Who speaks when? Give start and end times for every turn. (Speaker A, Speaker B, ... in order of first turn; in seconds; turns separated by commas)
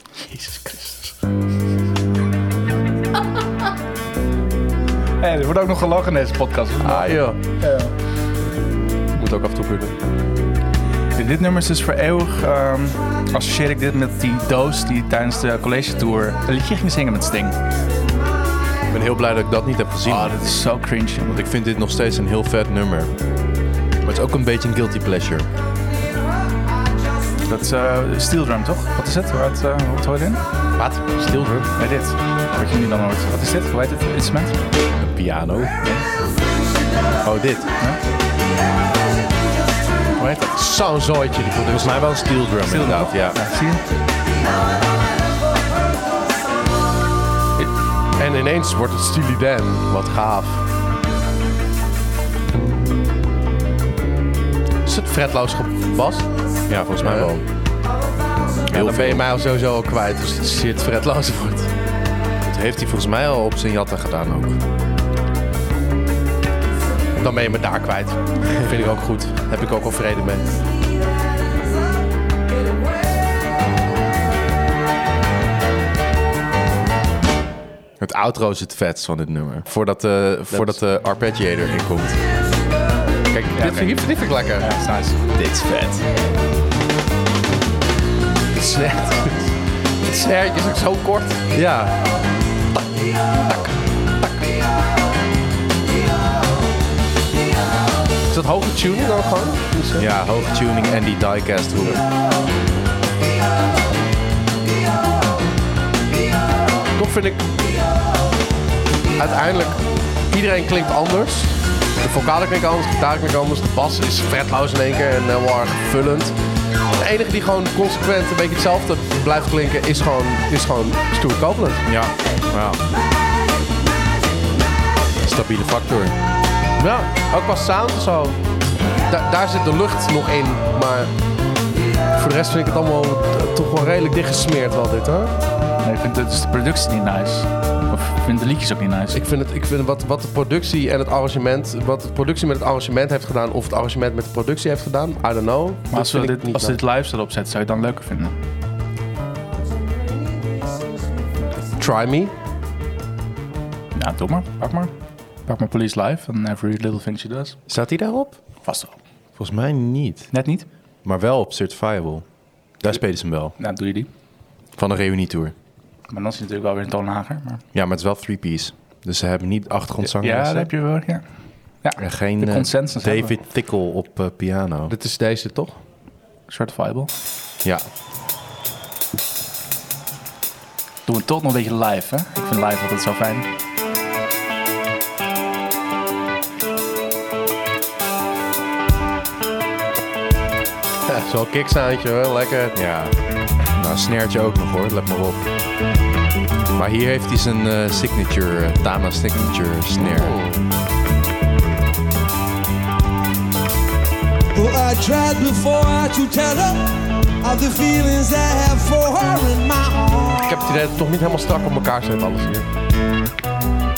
Speaker A: 0.3-0.9, Speaker A: 5.2-7.9, Speaker B: 6.8-7.4, Speaker B: 9.2-10.0, Speaker A: 11.2-17.6, Speaker C: 18.9-20.4, Speaker A: 20.1-21.4, Speaker C: 21.3-23.1, Speaker C: 24.0-25.5, Speaker A: 27.5-30.4, Speaker C: 30.8-31.7, Speaker A: 31.8-34.6, Speaker C: 35.0-35.8, Speaker A: 35.8-36.0, Speaker C: 37.2-37.7, Speaker B: 40.2-42.0, Speaker C: 41.7-43.4, Speaker A: 42.6-43.8, Speaker B: 47.6-50.6, Speaker B: 54.9-56.3, Speaker C: 56.7-57.5, Speaker B: 57.0-57.3, Speaker C: 58.7-59.2, Speaker B: 58.7-61.7, Speaker C: 62.5-64.6, Speaker B: 67.2-70.6, Speaker C: 78.0-82.2, Speaker B: 80.5-80.8, Speaker C: 83.3-83.6, Speaker B: 83.6-84.7, Speaker A: 83.6-85.2, Speaker C: 85.3-86.0, Speaker B: 88.5-91.9, Speaker B: 98.3-100.1, Speaker C: 100.0-102.0, Speaker B: 107.0-107.5, Speaker B: 109.2-116.3, Speaker B: 117.0-121.9, Speaker C: 121.9-122.8, Speaker C: 125.2-126.2, Speaker B: 126.8-128.4, Speaker B: 129.1-131.1, Speaker B: 132.2-135.4, Speaker A: 135.8-139.2, Speaker B: 139.1-146.8, Speaker A: 145.9-148.3, Speaker D: 150.3-151.1, Speaker B: 151.8-152.3, Speaker A: 153.9-154.9, Speaker A: 155.5-157.6, Speaker C: 157.7-158.4, Speaker A: 158.6-158.9, Speaker C: 159.4-160.3, Speaker A: 160.3-160.7, Speaker C: 161.1-162.2, Speaker C: 162.8-163.6, Speaker A: 163.6-164.1, Speaker C: 164.8-165.5, Speaker A: 166.1-167.6, Speaker C: 167.7-170.7, Speaker A: 170.0-171.2, Speaker A: 171.8-173.3, Speaker C: 172.0-174.9, Speaker B: 174.9-175.8, Speaker A: 176.5-177.1, Speaker A: 181.1-183.5, Speaker B: 191.1-192.8, Speaker C: 192.8-193.2, Speaker C: 193.7-195.5, Speaker C: 196.8-200.4, Speaker B: 200.0-200.6, Speaker D: 204.5-210.6, Speaker B: 210.4-212.7